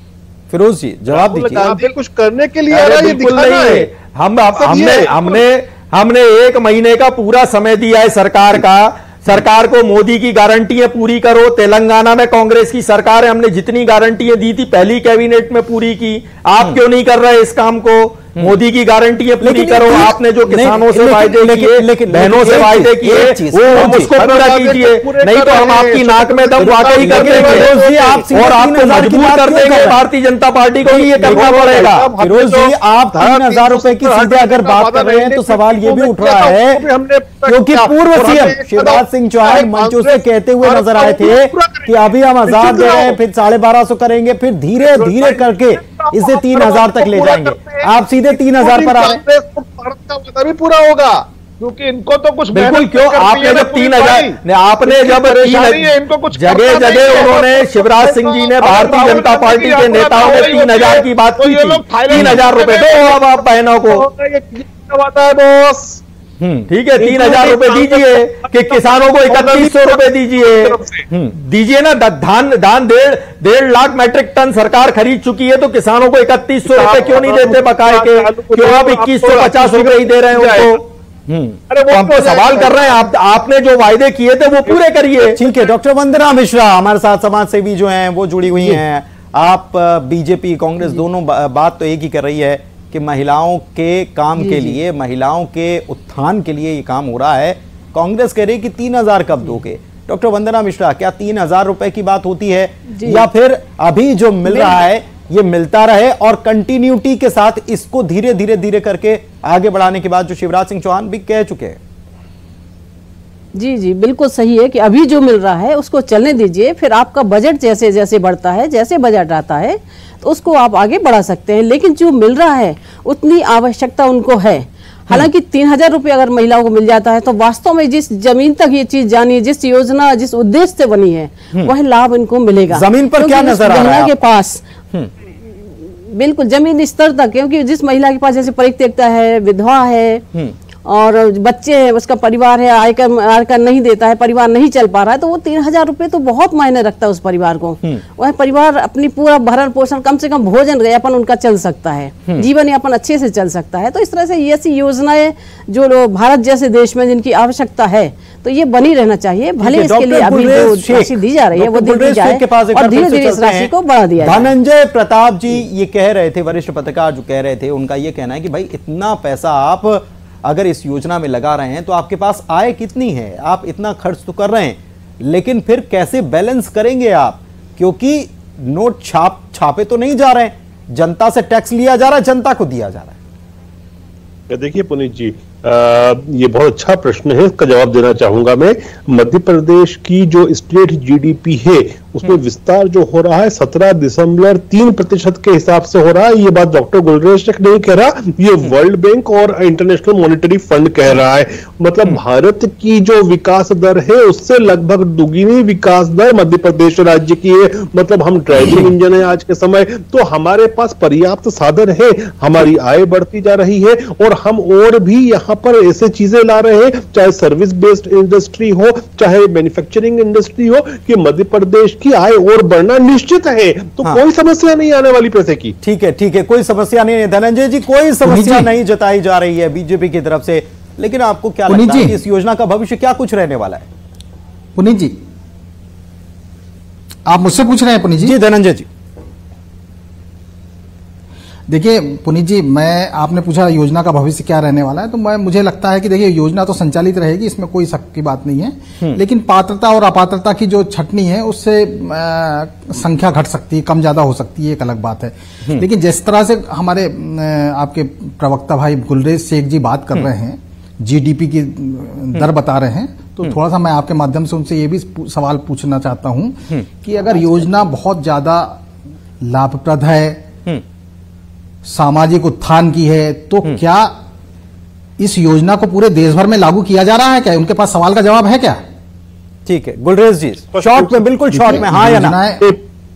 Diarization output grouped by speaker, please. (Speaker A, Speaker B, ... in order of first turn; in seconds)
Speaker A: 0.5-1.7, 19.4-24.1, 26.6-30.0, 31.2-31.6, 32.2-36.8, 37.5-49.2, 66.4-66.7, 71.1-71.3, 81.3-81.6, 85.3-111.8, 132.7-134.1, 159.6-183.2, 225.8-233.8, 238.2-238.9, 279.6-282.4
Speaker B: 1.1-3.9, 4.5-5.4, 23.7-28.4, 30.8-43.2, 44.8-51.2, 63.9-66.0, 67.0-71.0, 76.6-80.8, 81.7-83.0, 184.5-225.8, 280.8-281.8
Speaker C: 2.7-32.1, 52.5-64.0, 66.7-70.8, 71.3-80.8, 81.9-85.4
Speaker D: 51.6-63.2
Speaker E: 94.3-94.8, 102.9-103.2, 104.5-104.8, 113.5-134.6, 135.4-140.2, 140.8-164.5
Speaker F: 228.2-228.7, 231.7-232.2, 234.8-235.2, 237.2-238.3, 241.7-268.8, 269.4-270.4, 271.8-274.1, 275.2-278.8, 281.6-282.6